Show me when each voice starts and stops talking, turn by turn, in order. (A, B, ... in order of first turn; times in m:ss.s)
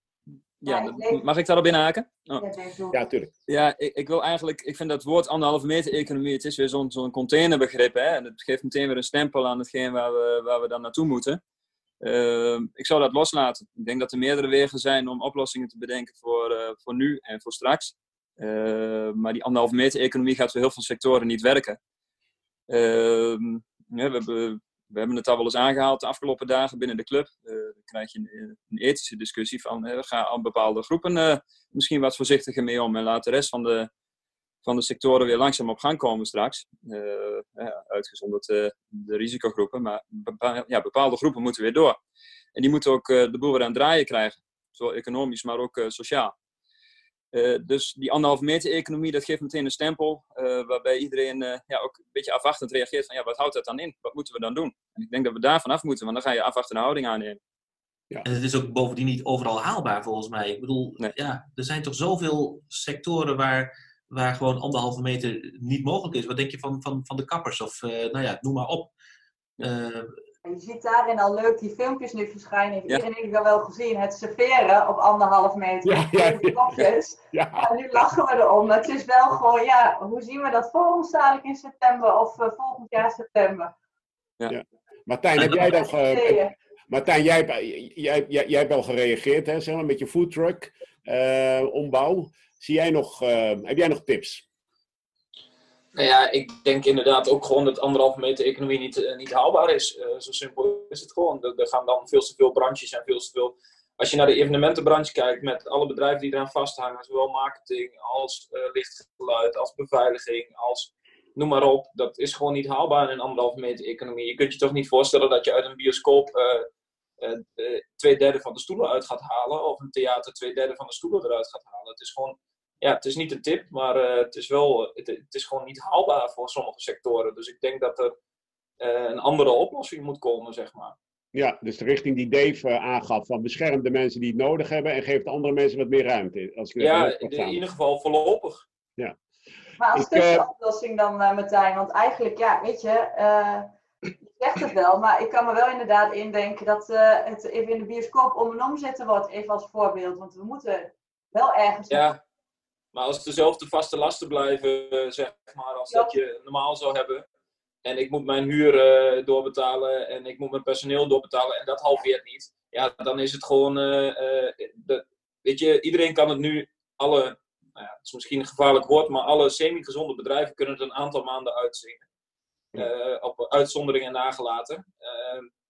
0:00.6-0:02.4 A
0:00.7-0:01.2 B
0:02.4-0:03.0 B
0:02.9-0:03.3 C
0:03.5-0:11.4 A
0:12.0-0:21.8 A
0:22.7-0:33.9 A
0:34.6-0:42.0 A
0:42.6-0:46.3 A
0:47.3-0:57.4 A
0:58.2-1:08.9 D
1:09.6-1:10.1 D
1:10.4-1:23.7 B
1:15.8-1:16.7 C
1:17.3-1:17.7 C
1:24.5-1:34.4 C
1:25.5-1:26.5 B
1:36.0-1:56.7 E
1:57.2-2:08.1 E
2:08.8-2:11.0 E
2:11.3-2:17.6 C
2:16.8-2:18.6 E
2:19.8-2:23.7 B
2:19.9-2:20.4 C
2:24.3-2:32.1 B
2:31.9-2:32.2 E
2:32.9-2:37.2 E
2:37.8-2:52.0 E
2:52.8-2:55.5 E